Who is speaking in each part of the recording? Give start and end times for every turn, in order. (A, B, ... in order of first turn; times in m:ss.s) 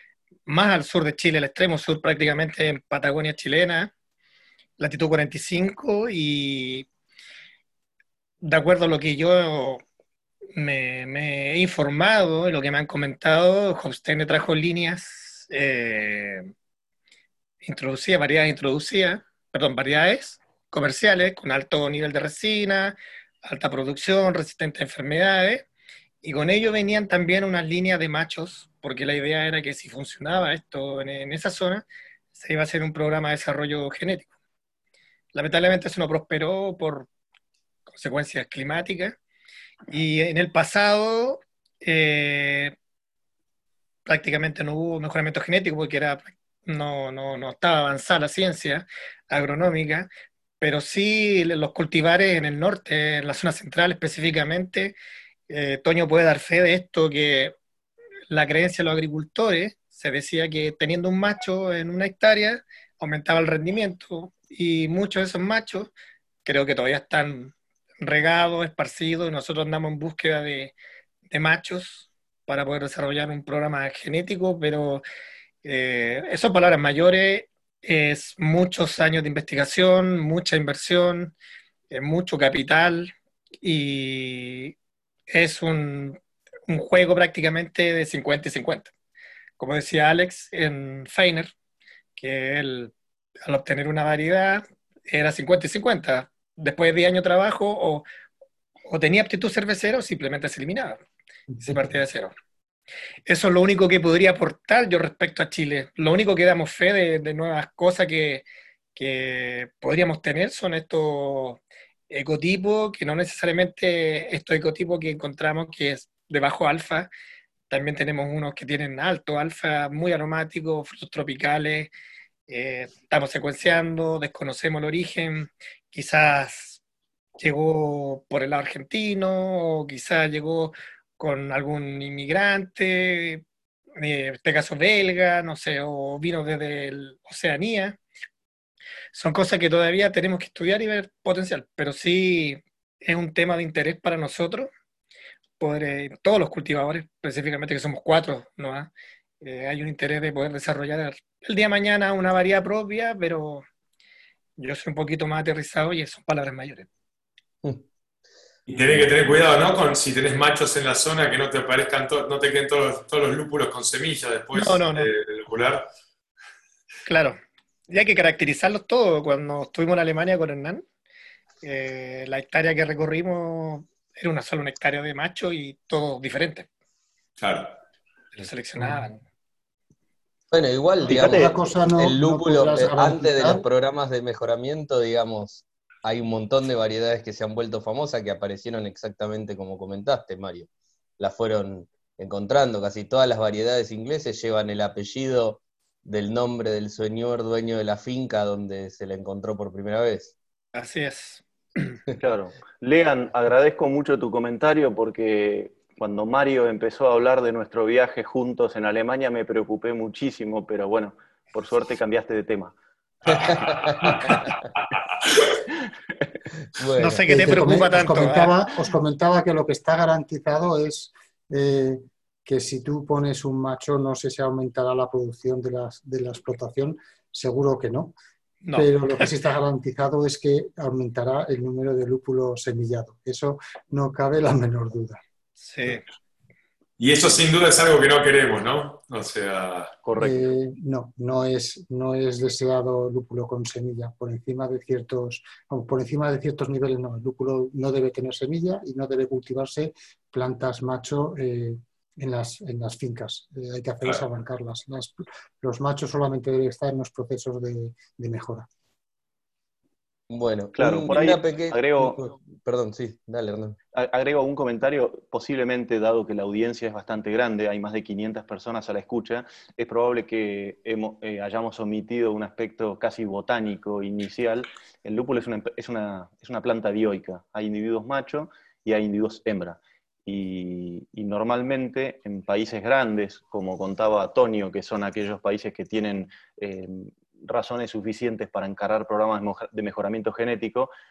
0:00.5-0:03.9 A
0:04.8-0:06.9 A
0:08.4-0:09.8 A
0:10.6-0:16.5 A
0:17.6-0:25.7 A
0:26.2-0:34.3 A
0:35.3-0:37.1 A
0:37.9-0:39.2 A
0:39.9-0:42.8 A
0:44.1-0:50.1 A
0:50.6-0:55.0 A
0:55.5-0:57.6 A
0:58.3-1:05.9 A
1:06.4-1:10.7 A
1:11.3-1:15.0 A
1:15.6-1:21.3 A
1:21.9-1:24.7 A
1:25.3-1:28.9 A
1:29.6-1:31.5 A
1:32.2-1:32.9 A
1:33.4-1:38.0 A
1:38.9-1:41.0 A
1:41.6-1:42.3 A
1:43.3-1:57.1 A
1:57.7-2:01.9 A
2:02.5-2:06.8 A
2:07.4-2:13.4 A
2:14.0-2:18.0 A
2:19.1-2:24.7 A
2:25.6-2:33.7 A
2:34.6-2:36.9 A
2:38.7-2:45.9 B
2:44.5-2:45.1 A
2:47.1-2:47.4 A
2:47.9-2:50.8 A
2:51.6-2:56.7 A
2:57.4-2:57.8 B
2:58.3-2:59.2 A
3:00.5-3:10.7 C
3:01.0-3:03.6 D
3:11.2-3:20.4 C
3:20.8-3:22.0 A
3:22.2-3:32.8 E
3:33.3-3:34.2 C
3:33.4-3:33.7 E
3:33.6-3:34.4 B
3:34.9-3:35.3 B
3:36.8-3:37.3 C
3:37.0-3:38.6 A
3:37.3-3:48.1 D
3:48.6-3:48.9 A
3:48.7-3:55.2 D
3:55.6-3:56.0 A
3:57.0-3:59.9 B
4:00.0-4:00.5 E
4:00.2-4:18.7 D
4:20.3-4:23.8 C
4:20.8-4:22.2 E
4:23.9-4:50.9 E